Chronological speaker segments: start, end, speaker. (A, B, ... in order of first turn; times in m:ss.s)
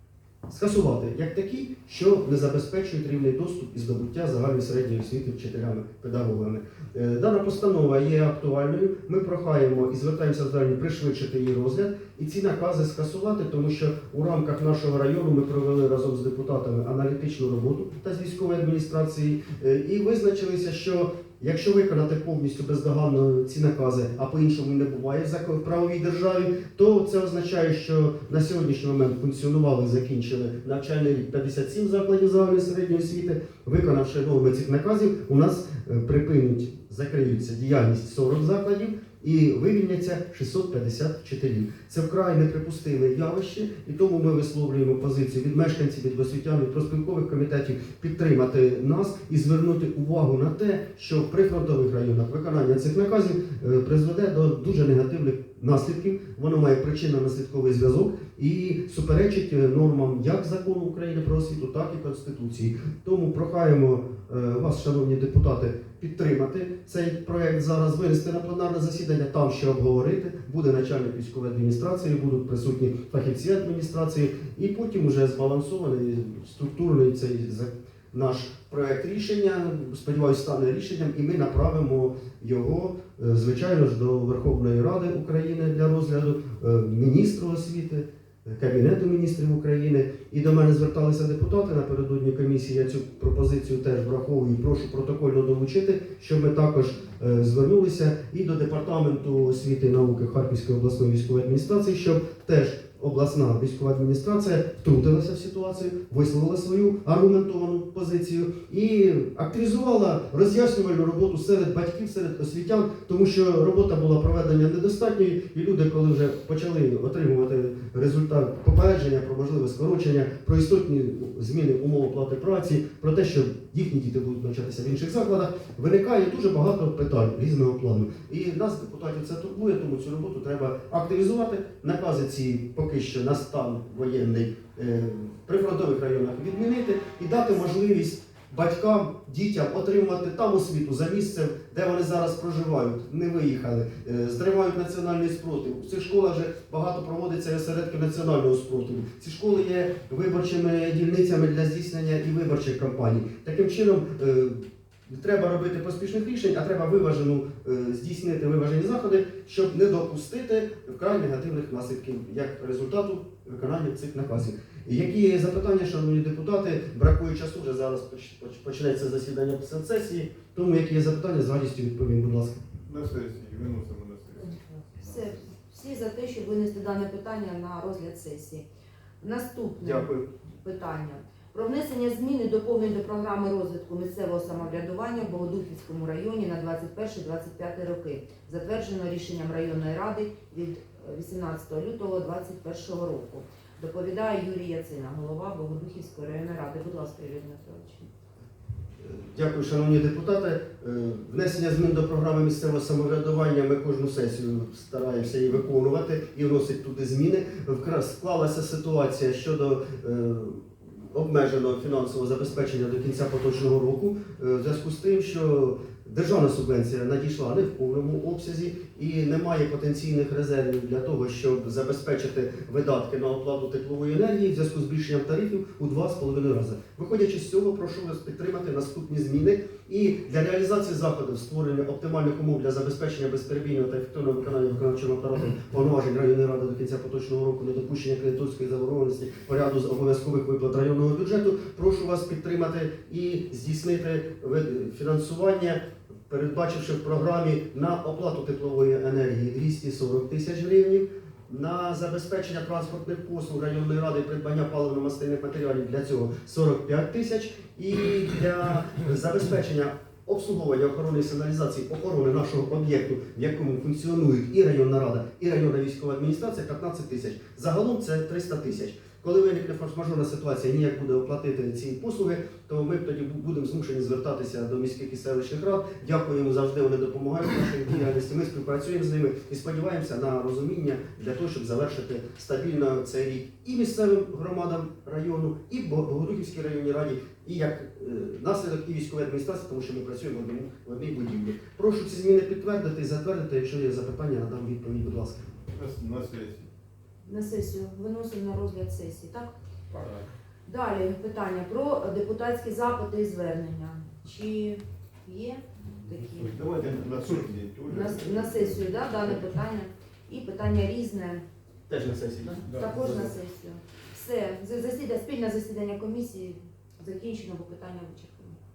0:00.5-2:52.6 A
2:52.8-2:55.4 B
2:55.0-2:58.6 C
2:59.2-3:18.1 C
2:59.8-3:00.3 A
3:19.0-4:55.6 A
4:55.7-4:56.7 B
4:57.2-4:59.5 C
4:59.9-5:00.2 B
5:00.7-5:06.6 C
5:06.4-5:08.8 B
5:07.8-5:11.4 C
5:11.9-5:13.2 A
5:12.6-5:13.1 B
5:12.7-5:18.6 C